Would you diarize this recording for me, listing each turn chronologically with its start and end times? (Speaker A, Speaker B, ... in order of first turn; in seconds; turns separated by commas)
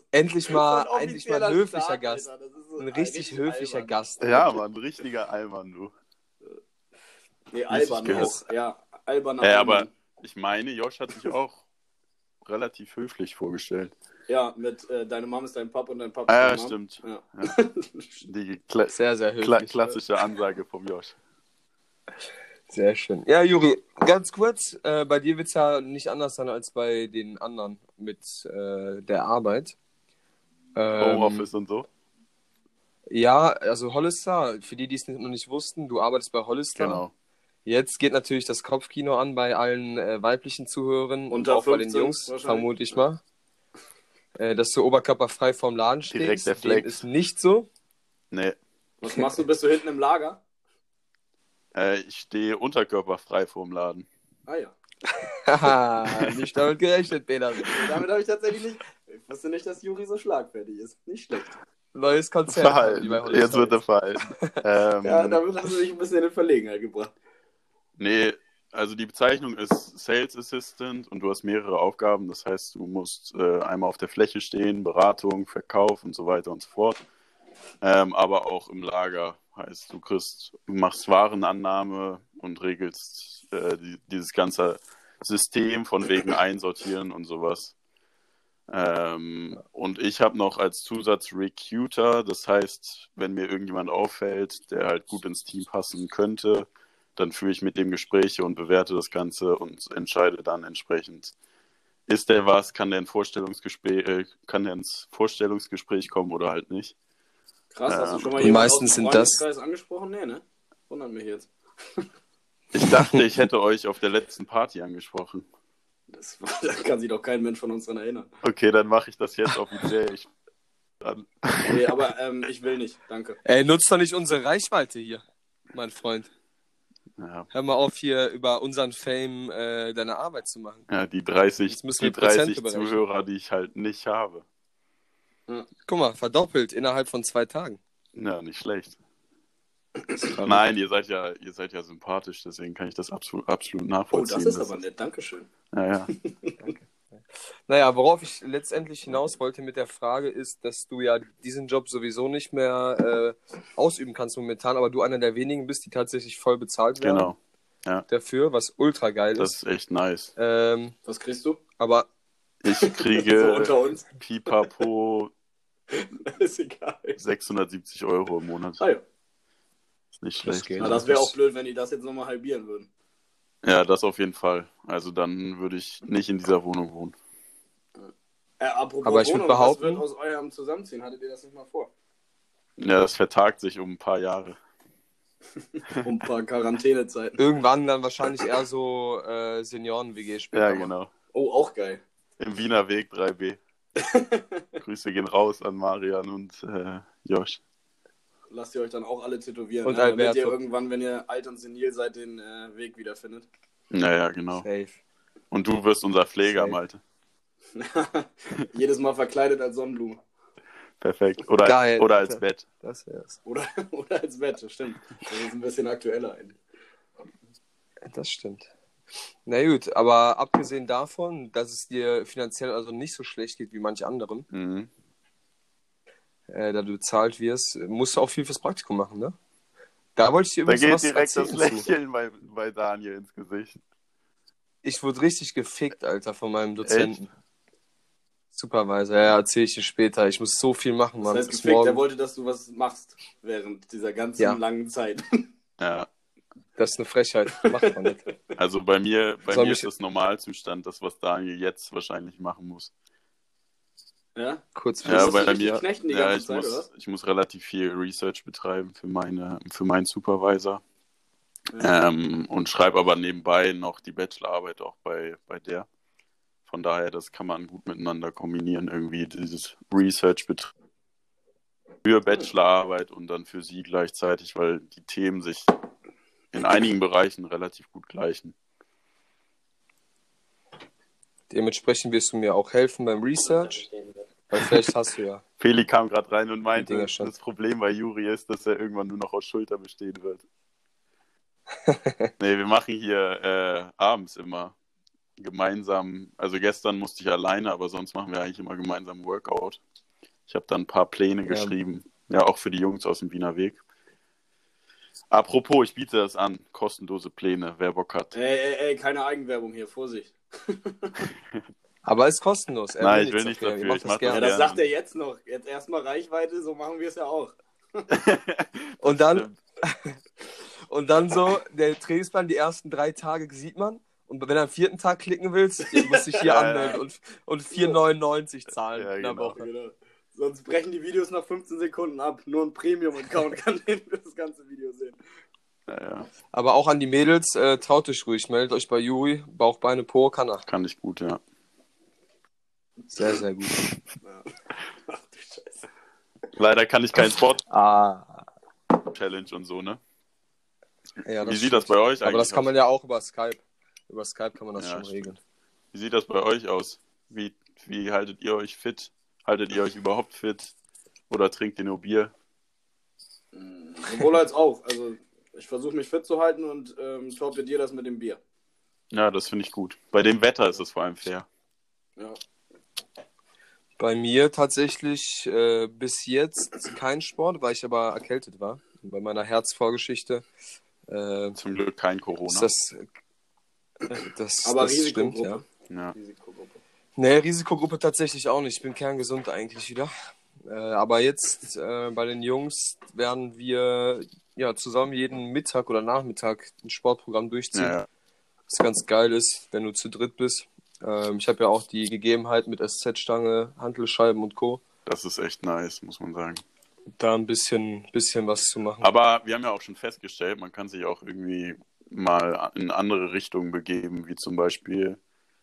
Speaker A: 0.1-2.2, Speaker B: 0.5-4.0, Speaker A: 2.8-4.6, Speaker C: 4.2-5.9, Speaker B: 7.5-9.9, Speaker C: 7.7-8.4, Speaker C: 9.4-11.6, Speaker C: 12.4-13.9, Speaker B: 14.3-18.1, Speaker C: 16.3-17.5, Speaker C: 18.2-21.1, Speaker A: 18.9-20.0, Speaker A: 22.7-29.8, Speaker A: 30.8-31.5, Speaker C: 31.0-31.9, Speaker A: 33.1-37.0, Speaker C: 36.7-37.1, Speaker A: 37.6-43.2, Speaker B: 41.3-42.7, Speaker A: 44.4-47.7, Speaker C: 46.1-47.0, Speaker C: 48.3-48.6, Speaker B: 49.0-50.4, Speaker C: 51.7-54.1, Speaker B: 54.5-54.8, Speaker A: 55.2-57.9, Speaker C: 56.1-56.4, Speaker B: 57.7-61.6, Speaker A: 61.9-64.6, Speaker C: 62.5-65.4, Speaker B: 65.0-67.1, Speaker C: 68.0-77.0, Speaker C: 77.8-87.7, Speaker C: 88.7-101.3, Speaker C: 102.1-106.9, Speaker B: 107.7-112.1, Speaker C: 107.9-108.5, Speaker A: 108.4-109.4, Speaker C: 112.7-115.5, Speaker B: 116.1-118.3, Speaker C: 118.4-120.3, Speaker C: 121.0-122.0, Speaker B: 121.7-123.4, Speaker A: 123.4-125.2, Speaker A: 125.7-126.3, Speaker C: 127.2-127.5, Speaker A: 127.5-130.8, Speaker C: 130.9-134.4, Speaker A: 131.7-133.0, Speaker A: 135.9-137.8, Speaker C: 138.1-139.0, Speaker A: 140.3-140.6, Speaker C: 140.4-144.7, Speaker B: 144.1-145.5, Speaker C: 145.7-146.1, Speaker B: 146.1-146.5, Speaker A: 146.6-157.3, Speaker C: 157.0-158.1, Speaker A: 158.1-159.6, Speaker C: 159.4-160.3, Speaker A: 160.4-160.9, Speaker B: 161.1-161.6, Speaker A: 161.8-162.1, Speaker C: 162.6-165.3, Speaker B: 162.7-164.7, Speaker B: 165.9-167.2, Speaker C: 167.2-168.8, Speaker C: 170.2-171.1, Speaker A: 170.4-171.3, Speaker B: 170.8-172.9, Speaker C: 173.6-177.2, Speaker B: 178.0-181.9, Speaker A: 179.0-180.0, Speaker C: 182.8-184.6, Speaker B: 186.0-187.4, Speaker A: 187.4-190.9, Speaker C: 190.5-191.1, Speaker B: 191.3-192.0, Speaker C: 192.4-193.6, Speaker B: 193.9-194.8, Speaker C: 194.8-197.6, Speaker B: 198.5-203.5, Speaker A: 199.8-200.6, Speaker C: 203.9-204.6, Speaker A: 204.6-205.0, Speaker C: 205.5-207.0, Speaker A: 206.4-206.8, Speaker B: 207.7-210.2, Speaker C: 211.0-212.6, Speaker A: 211.6-213.4, Speaker B: 213.4-216.6, Speaker A: 218.1-218.7, Speaker A: 219.4-224.4, Speaker C: 224.5-224.9, Speaker A: 226.5-229.3, Speaker A: 230.2-231.9, Speaker C: 230.7-233.8, Speaker A: 234.8-237.3, Speaker C: 236.8-237.1, Speaker A: 238.5-242.0, Speaker B: 241.2-245.5, Speaker C: 245.8-246.1, Speaker A: 246.8-248.2, Speaker B: 247.6-248.1, Speaker C: 248.6-252.9, Speaker A: 249.5-249.9, Speaker B: 254.3-256.9, Speaker A: 254.8-255.8, Speaker C: 255.0-260.8, Speaker C: 261.8-265.9, Speaker C: 266.7-270.7, Speaker C: 272.0-275.7, Speaker C: 276.5-278.6, Speaker A: 281.5-283.9, Speaker A: 284.5-285.4, Speaker C: 285.6-290.4, Speaker A: 286.8-287.3, Speaker A: 291.9-292.3, Speaker C: 292.4-294.7, Speaker C: 295.4-299.8, Speaker C: 300.5-303.8, Speaker A: 301.5-301.7, Speaker C: 305.3-308.3, Speaker B: 308.3-311.3, Speaker A: 312.0-314.6, Speaker C: 313.0-314.8, Speaker B: 314.3-318.1, Speaker C: 318.1-319.5, Speaker A: 319.0-320.2, Speaker A: 320.8-329.7, Speaker B: 325.9-326.3, Speaker C: 326.4-327.0, Speaker C: 328.9-329.6, Speaker B: 329.5-335.2, Speaker C: 335.9-336.3, Speaker A: 336.5-340.6, Speaker C: 340.7-341.4, Speaker A: 343.1-343.8, Speaker B: 344.2-344.5, Speaker B: 345.1-345.9, Speaker C: 346.5-347.6, Speaker A: 347.7-348.4, Speaker C: 349.1-350.0, Speaker A: 351.2-355.4, Speaker C: 351.4-352.7, Speaker C: 354.8-355.3, Speaker C: 355.9-360.7, Speaker C: 361.3-362.3, Speaker B: 363.5-368.4, Speaker C: 369.1-371.4, Speaker A: 374.0-380.4, Speaker A: 381.1-381.6, Speaker C: 381.6-382.7, Speaker A: 382.5-383.1, Speaker B: 384.1-386.8, Speaker A: 384.2-385.6, Speaker A: 387.2-390.1, Speaker A: 390.6-398.0, Speaker C: 397.7-398.1, Speaker A: 398.7-404.8, Speaker C: 405.1-406.6, Speaker A: 407.2-409.1, Speaker C: 409.0-415.2